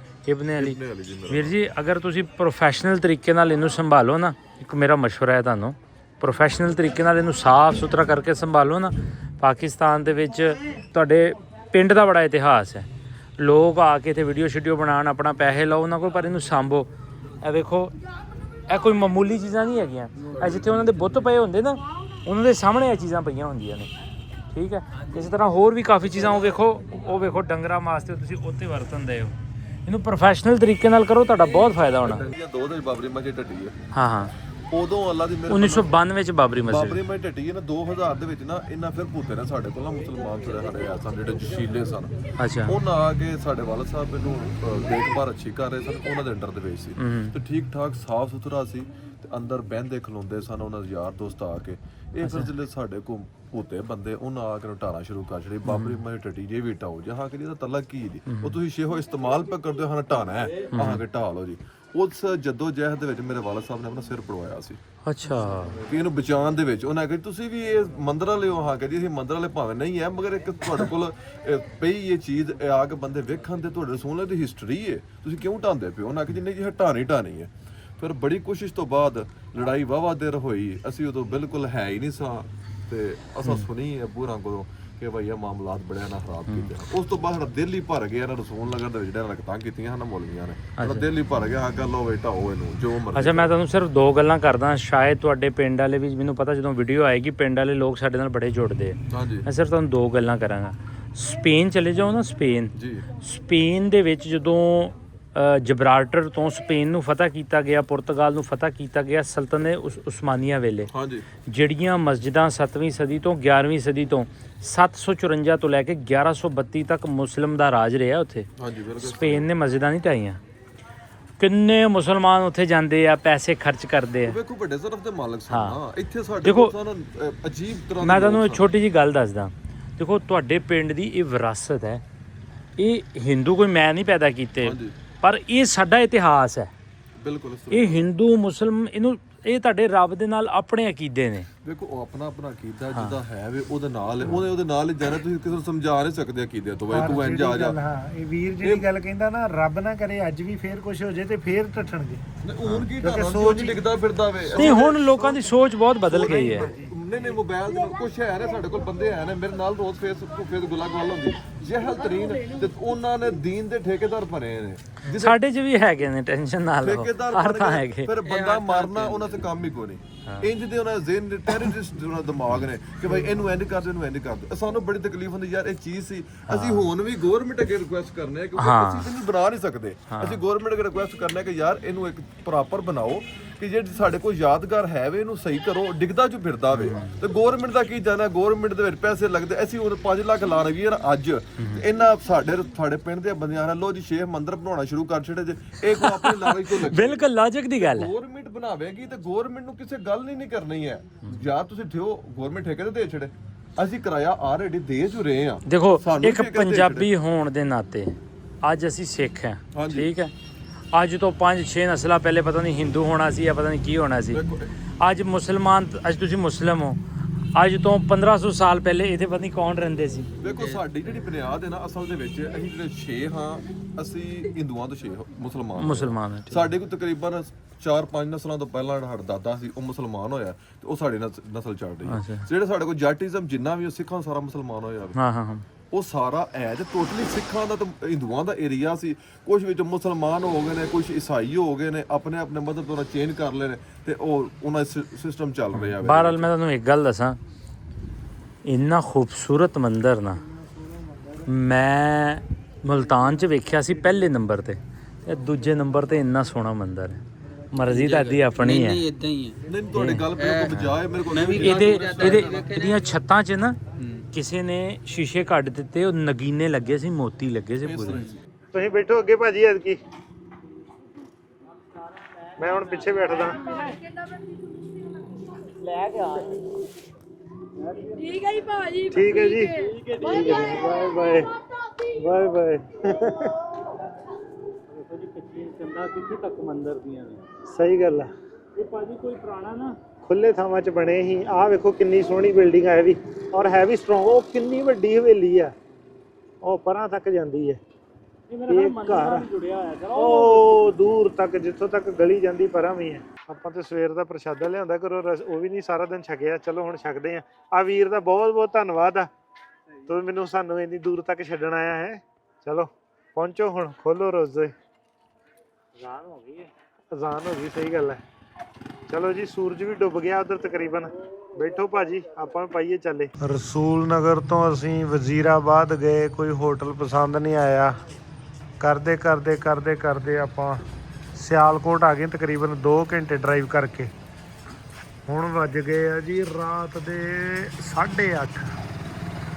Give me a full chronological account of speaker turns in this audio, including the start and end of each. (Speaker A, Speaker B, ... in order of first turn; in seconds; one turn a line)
Speaker A: 0.3-12.9
Speaker B: 0.6-1.6
Speaker A: 13.4-16.9
Speaker A: 17.4-17.9
Speaker A: 18.7-23.9
Speaker A: 24.5-29.3
Speaker A: 29.9-32.3
Speaker B: 32.0-33.8
Speaker A: 33.9-34.3
Speaker B: 34.7-36.0
Speaker A: 35.5-37.0
Speaker B: 36.7-42.1
Speaker A: 42.4-42.8
Speaker B: 42.7-64.8
Speaker A: 47.0-47.4
Speaker A: 52.2-52.5
Speaker A: 55.7-56.0
Speaker A: 58.3-58.6
Speaker A: 60.7-61.0
Speaker A: 65.1-65.8
Speaker B: 65.9-93.5
Speaker A: 90.8-91.0
Speaker A: 93.1-110.9
Speaker B: 99.1-99.5
Speaker B: 102.8-103.0
Speaker B: 110.9-111.2
Speaker A: 111.5-118.5
Speaker B: 118.6-119.5
Speaker A: 119.0-120.4
Speaker A: 121.4-124.4
Speaker B: 124.2-128.7
Speaker A: 125.5-125.8
Speaker A: 126.4-126.7
Speaker A: 128.0-132.0
Speaker A: 132.8-136.7
Speaker B: 134.6-134.9
Speaker B: 137.2-138.1
Speaker A: 137.7-141.5
Speaker B: 141.7-147.8
Speaker C: 146.9-152.2
Speaker B: 148.6-148.9
Speaker B: 152.4-155.5
Speaker C: 153.0-153.8
Speaker A: 154.6-156.7
Speaker B: 156.1-165.4
Speaker C: 156.5-156.9
Speaker A: 165.1-168.1
Speaker B: 166.8-197.3
Speaker D: 168.2-169.4
Speaker A: 176.5-176.9
Speaker A: 178.6-179.1
Speaker A: 180.1-180.4
Speaker A: 186.7-187.2
Speaker A: 196.0-198.1
Speaker B: 197.8-207.1
Speaker A: 205.7-210.3
Speaker B: 209.7-210.1
Speaker A: 210.9-214.4
Speaker B: 214.3-214.7
Speaker A: 215.0-217.0
Speaker A: 217.6-220.3
Speaker B: 220.4-235.2
Speaker A: 225.8-226.7
Speaker A: 232.1-232.5
Speaker A: 235.2-235.7
Speaker B: 235.9-246.5
Speaker A: 245.7-247.4
Speaker A: 248.7-250.4
Speaker A: 251.4-257.2
Speaker A: 257.7-259.1
Speaker D: 257.8-259.6
Speaker B: 259.7-262.6
Speaker A: 259.9-261.0
Speaker D: 260.4-263.1
Speaker A: 261.6-263.8
Speaker D: 264.0-264.3
Speaker A: 264.3-268.2
Speaker B: 267.8-268.4
Speaker D: 268.1-268.4
Speaker C: 268.7-270.0
Speaker C: 272.6-273.6
Speaker A: 273.6-274.0
Speaker A: 275.8-276.6
Speaker A: 277.9-280.5
Speaker C: 279.1-281.5
Speaker C: 282.1-283.6
Speaker A: 284.9-287.4
Speaker C: 287.7-288.3
Speaker A: 288.8-290.0
Speaker C: 290.2-295.7
Speaker C: 296.6-297.8
Speaker A: 298.5-300.9
Speaker C: 298.7-299.5
Speaker C: 300.1-309.3
Speaker C: 310.1-314.7
Speaker A: 316.0-316.7
Speaker C: 317.1-318.2
Speaker C: 319.1-328.0
Speaker C: 328.8-330.8
Speaker C: 331.4-334.1
Speaker C: 335.3-338.7